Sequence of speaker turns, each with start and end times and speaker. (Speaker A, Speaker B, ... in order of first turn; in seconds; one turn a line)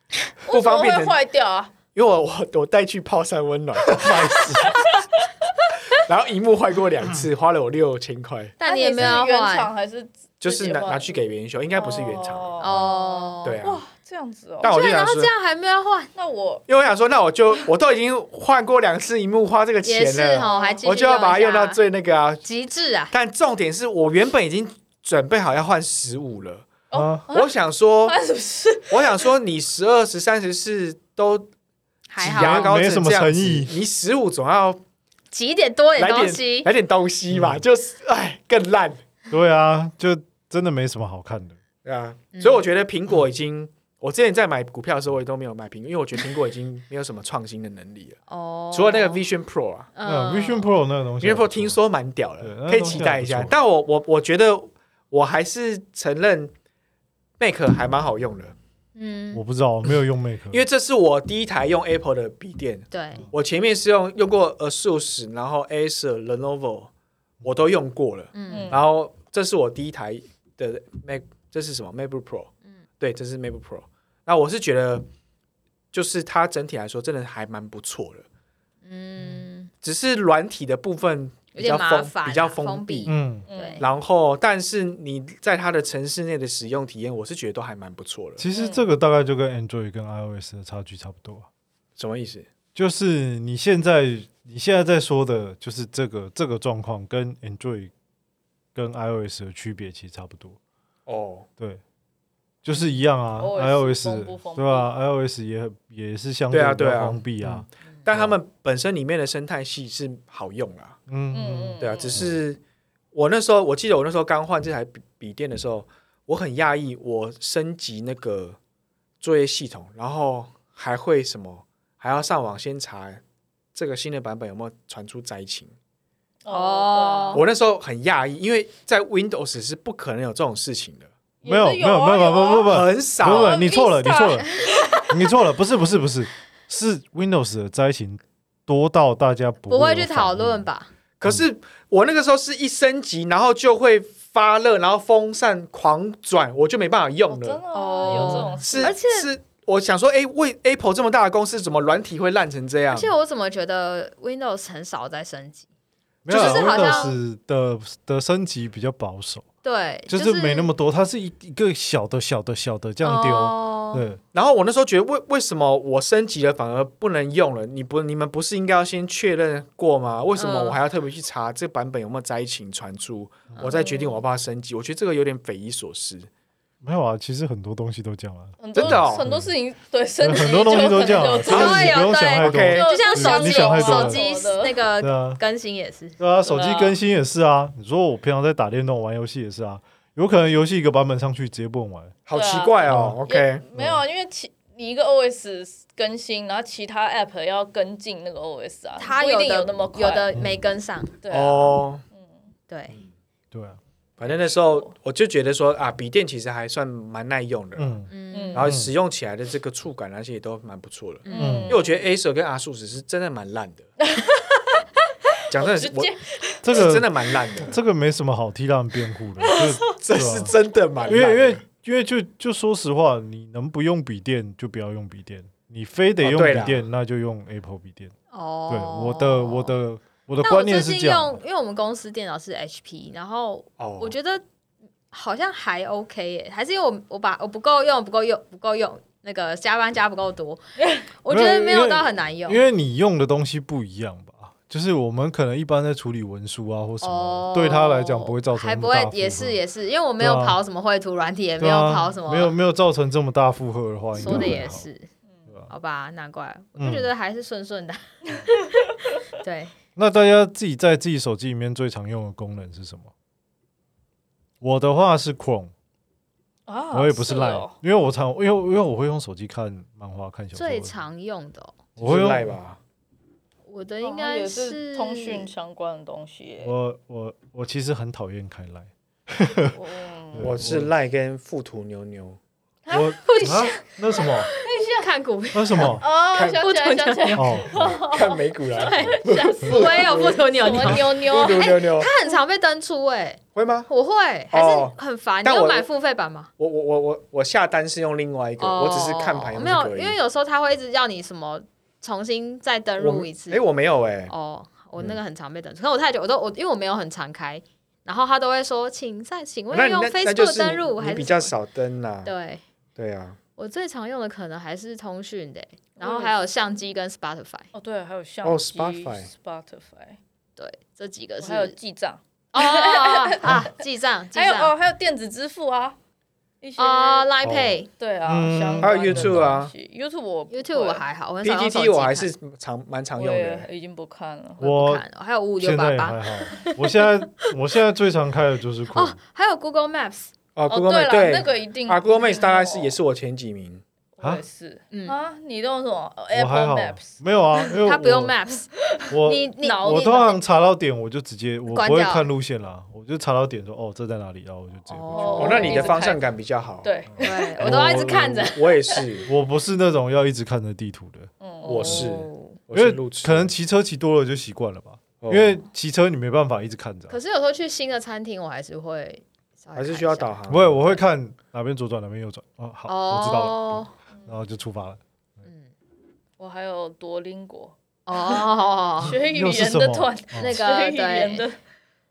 Speaker A: 0.5-1.7
Speaker B: 0.5-1.1
Speaker B: 1.9-4.8
Speaker C: 3.9-4.8
Speaker B: 5.9-8.6
Speaker D: 8.6-9.7
Speaker A: 8.6-11.2
Speaker B: 10.4-12.8
Speaker A: 11.7-14.8
Speaker D: 12.6-13.6
Speaker B: 13.4-13.8
Speaker B: 14.6-15.3
Speaker D: 14.6-16.1
Speaker A: 16.1-16.6
Speaker B: 16.7-22.4
Speaker D: 19.8-21.8
Speaker A: 20.4-20.8
Speaker D: 22.4-23.1
Speaker B: 23.1-26.7
Speaker A: 26.9-27.5
Speaker C: 26.9-27.2
Speaker B: 27.3-28.1
Speaker A: 28.0-29.3
Speaker B: 28.9-31.5
Speaker D: 32.1-32.7
Speaker B: 32.2-34.8
Speaker C: 32.2-33.7
Speaker D: 35.3-36.7
Speaker B: 36.0-39.0
Speaker C: 37.3-37.6
Speaker C: 39.3-41.6
Speaker B: 41.8-48.2
Speaker D: 42.3-42.6
Speaker D: 48.3-49.2
Speaker B: 48.7-49.9
Speaker D: 49.9-50.7
Speaker C: 50.0-51.8
Speaker B: 51.2-56.5
Speaker C: 52.4-53.5
Speaker B: 57.4-58.5
Speaker D: 59.0-59.4
Speaker C: 59.3-60.6
Speaker B: 60.5-66.9
Speaker D: 62.9-63.2
Speaker B: 67.4-75.1
Speaker D: 68.3-68.7
Speaker A: 68.5-68.8
Speaker B: 75.9-78.2
Speaker D: 78.8-79.7
Speaker B: 79.8-83.1
Speaker D: 81.5-83.8
Speaker C: 83.0-83.5
Speaker A: 83.5-83.9
Speaker B: 83.8-88.5
Speaker C: 88.4-91.5
Speaker A: 88.5-88.9
Speaker B: 92.0-92.5
Speaker C: 92.7-97.9
Speaker C: 98.7-100.6
Speaker B: 101.1-101.5
Speaker C: 102.6-108.3
Speaker A: 103.4-104.9
Speaker B: 106.5-111.0
Speaker C: 111.1-112.3
Speaker A: 111.3-112.2
Speaker B: 111.8-112.6
Speaker B: 113.1-118.6
Speaker B: 119.2-123.2
Speaker B: 123.7-125.7
Speaker A: 126.4-127.4
Speaker D: 126.5-127.4
Speaker B: 127.3-131.1
Speaker A: 131.4-132.7
Speaker C: 131.4-140.7
Speaker B: 132.7-133.6
Speaker D: 133.3-134.7
Speaker D: 139.7-140.9
Speaker B: 141.2-147.6
Speaker A: 147.3-148.9
Speaker D: 147.7-149.3
Speaker C: 148.1-148.6
Speaker B: 148.2-153.1
Speaker D: 152.9-155.7
Speaker B: 156.2-157.1
Speaker C: 156.2-159.4
Speaker D: 156.3-157.2
Speaker D: 159.6-160.7
Speaker C: 160.1-164.2
Speaker D: 163.0-164.0
Speaker B: 164.3-176.3
Speaker D: 170.3-170.8
Speaker D: 173.6-174.1
Speaker C: 176.8-179.5
Speaker A: 178.6-181.9
Speaker B: 178.7-179.2
Speaker C: 180.2-184.2
Speaker B: 181.4-182.8
Speaker D: 181.5-186.2
Speaker A: 182.7-184.8
Speaker C: 185.0-185.4
Speaker C: 186.2-192.1
Speaker A: 186.4-187.0
Speaker B: 192.3-193.6
Speaker A: 192.3-200.3
Speaker C: 192.9-193.2
Speaker C: 193.8-194.0
Speaker D: 199.0-201.1
Speaker C: 200.3-200.6
Speaker A: 201.2-202.3
Speaker B: 201.3-202.0
Speaker D: 202.7-202.9
Speaker C: 203.5-203.8
Speaker B: 204.2-213.9
Speaker A: 204.2-204.9
Speaker C: 207.8-208.9
Speaker D: 208.1-208.7
Speaker A: 208.3-208.7
Speaker D: 211.2-211.8
Speaker A: 211.3-212.0
Speaker C: 211.4-211.8
Speaker A: 214.0-214.8
Speaker B: 215.5-216.1
Speaker A: 215.5-216.6
Speaker C: 216.6-228.1
Speaker B: 216.7-217.8
Speaker A: 219.4-219.9
Speaker B: 219.9-221.6
Speaker B: 226.2-226.8
Speaker D: 228.3-229.8
Speaker C: 228.7-231.4
Speaker D: 230.4-234.4
Speaker B: 233.8-234.2
Speaker D: 235.1-240.6
Speaker D: 241.2-242.6
Speaker C: 241.3-249.6
Speaker D: 247.0-252.5
Speaker C: 250.2-250.6
Speaker C: 251.6-254.8
Speaker D: 254.2-255.1
Speaker D: 255.7-258.7
Speaker C: 256.8-257.1
Speaker D: 259.3-259.7
Speaker C: 259.9-263.1
Speaker C: 264.6-265.7
Speaker A: 266.7-267.7
Speaker C: 266.9-270.9
Speaker D: 270.5-271.8
Speaker C: 272.0-272.5
Speaker B: 272.0-272.8
Speaker D: 273.6-275.5
Speaker A: 274.0-276.7
Speaker C: 276.6-279.8
Speaker A: 279.7-280.5
Speaker C: 280.3-280.9
Speaker B: 280.4-282.4
Speaker A: 282.8-283.8
Speaker C: 282.9-284.5
Speaker D: 283.2-287.7
Speaker A: 284.6-285.1
Speaker C: 285.5-286.0
Speaker A: 286.0-291.9
Speaker B: 286.3-286.6
Speaker C: 287.3-287.9
Speaker B: 287.8-292.1
Speaker D: 288.7-296.5
Speaker B: 293.5-293.9
Speaker B: 294.5-295.9
Speaker B: 296.6-300.2
Speaker D: 298.6-303.6
Speaker B: 303.0-304.3
Speaker D: 304.3-311.5
Speaker B: 309.7-312.3
Speaker D: 312.2-312.6
Speaker B: 312.9-313.4
Speaker D: 313.6-317.7
Speaker A: 316.0-316.3
Speaker A: 317.7-320.2
Speaker B: 318.4-319.3
Speaker D: 320.6-321.7
Speaker A: 321.4-323.6
Speaker D: 322.5-324.7
Speaker C: 323.4-323.7
Speaker A: 324.3-326.0
Speaker A: 326.6-327.3
Speaker D: 326.8-327.9
Speaker B: 327.4-327.8
Speaker A: 328.0-331.0
Speaker C: 328.2-329.5
Speaker B: 328.8-329.7
Speaker D: 330.5-332.3
Speaker B: 331.4-333.7
Speaker A: 333.2-334.6
Speaker D: 334.6-337.4
Speaker C: 334.6-335.0
Speaker C: 335.6-339.2
Speaker D: 338.9-340.3
Speaker B: 340.6-343.8
Speaker A: 340.7-343.0
Speaker A: 344.2-347.1
Speaker D: 344.9-345.2
Speaker C: 346.3-348.3
Speaker D: 347.7-348.7
Speaker A: 349.0-350.4
Speaker C: 349.1-355.4
Speaker D: 349.2-350.4
Speaker D: 351.7-352.2
Speaker D: 354.9-356.1
Speaker A: 355.1-356.2
Speaker B: 355.4-356.9
Speaker A: 356.8-357.6
Speaker D: 357.2-359.0
Speaker C: 357.6-358.5
Speaker B: 357.6-359.3
Speaker C: 359.3-361.3
Speaker A: 361.4-362.1
Speaker B: 361.6-363.5
Speaker D: 361.6-362.6
Speaker C: 362.7-367.2
Speaker B: 365.2-365.6
Speaker D: 367.1-371.0
Speaker B: 369.8-371.0
Speaker C: 370.5-375.0
Speaker D: 372.9-373.9
Speaker A: 374.1-374.4
Speaker D: 375.4-375.7
Speaker A: 376.4-378.4
Speaker D: 378.1-379.2
Speaker A: 379.0-381.6
Speaker C: 379.0-380.6
Speaker D: 380.4-381.5